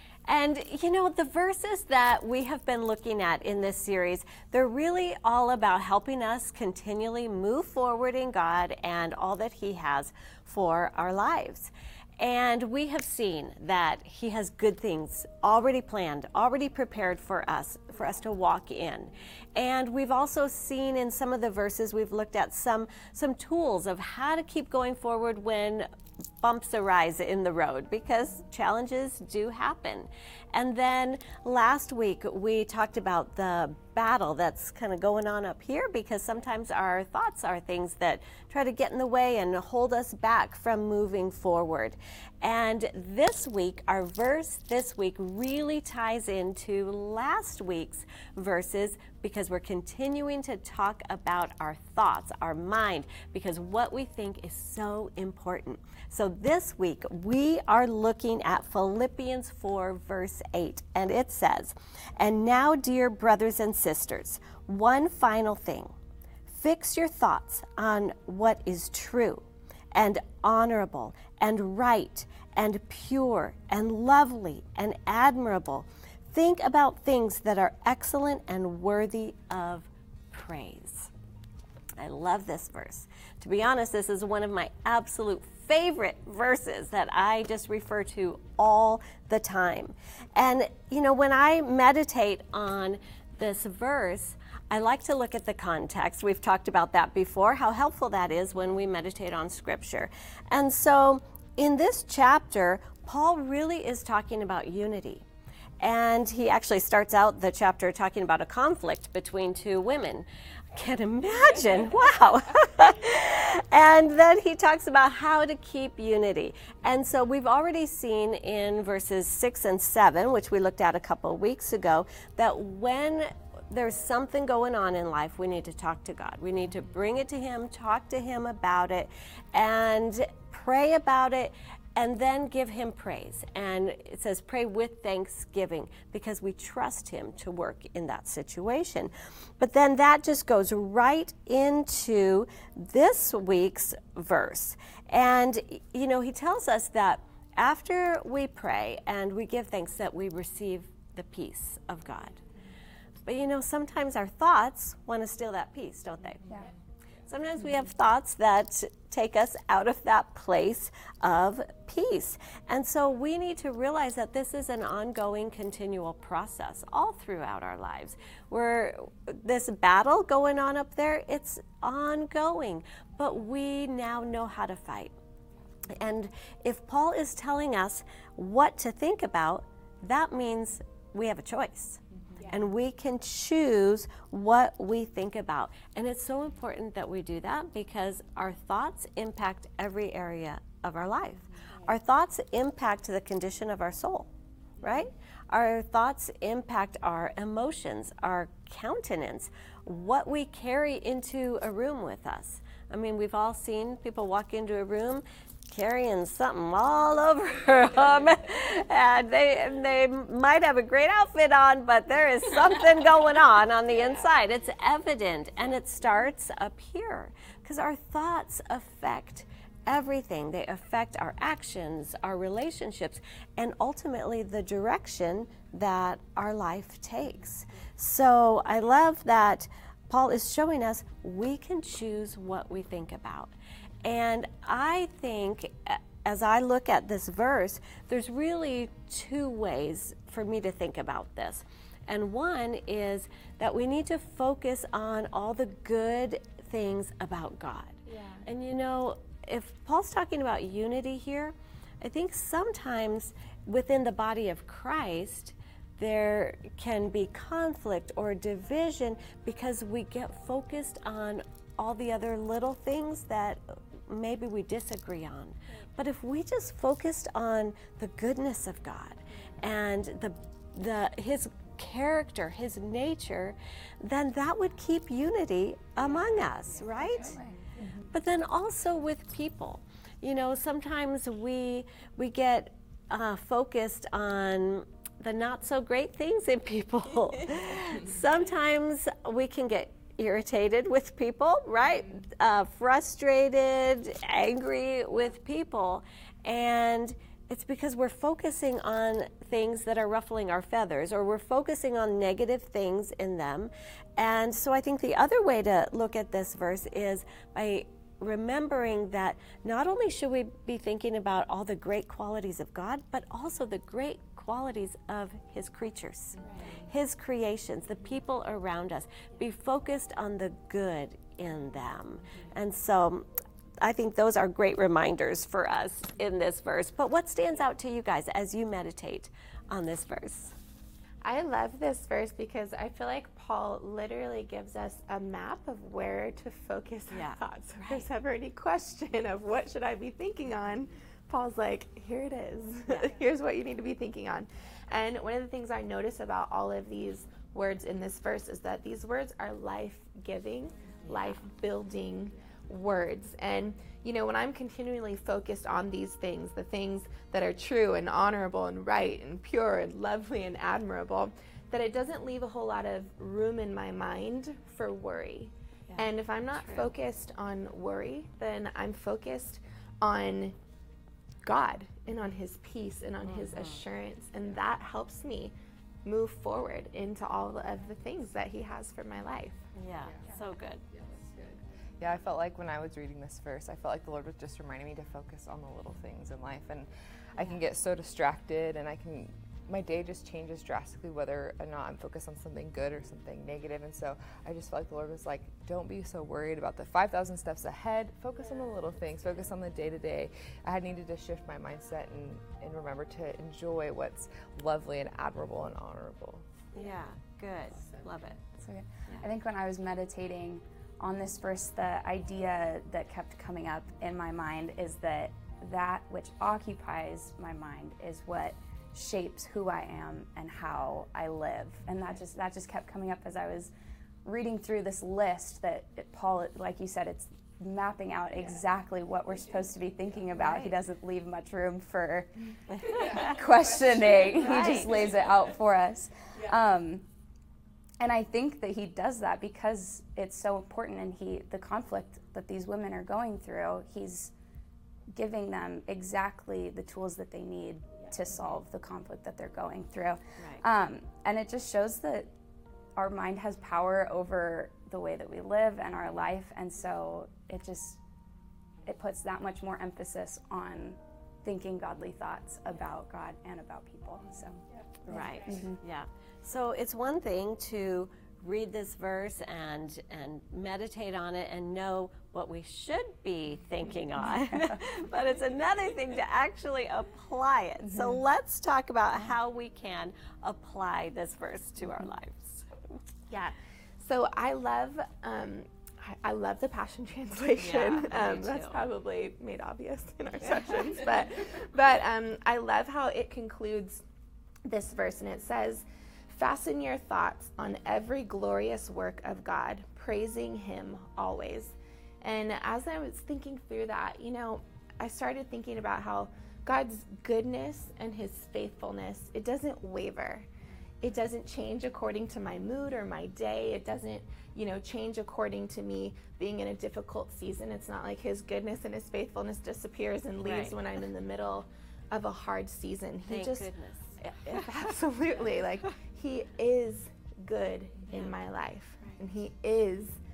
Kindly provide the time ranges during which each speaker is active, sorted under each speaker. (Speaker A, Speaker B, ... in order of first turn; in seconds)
Speaker A: 0.3-25.9, 26.4-65.9, 66.5-81.1, 82.0-105.2, 105.8-152.4, 153.2-156.6, 157.3-175.1, 175.9-233.5, 234.0-277.4, 278.1-323.3, 323.8-330.6, 337.1-338.1, 351.1-351.4, 365.9-366.9, 373.2-373.8, 379.7-380.8, 406.7-408.4, 430.4-430.7, 432.8-433.3, 434.3-435.0, 465.1-482.7, 487.6-488.9, 520.4-520.8, 523.3-524.6
Speaker B: 248.1-248.4, 331.2-370.6, 371.4-379.6, 483.3-494.0, 494.6-510.5, 511.0-523.7, 524.2-530.2
Speaker C: 277.3-277.6, 408.6-423.7, 424.2-437.0, 438.0-444.3, 445.1-452.3, 453.0-458.0, 458.9-464.6, 465.1-465.8
Speaker D: 382.0-406.4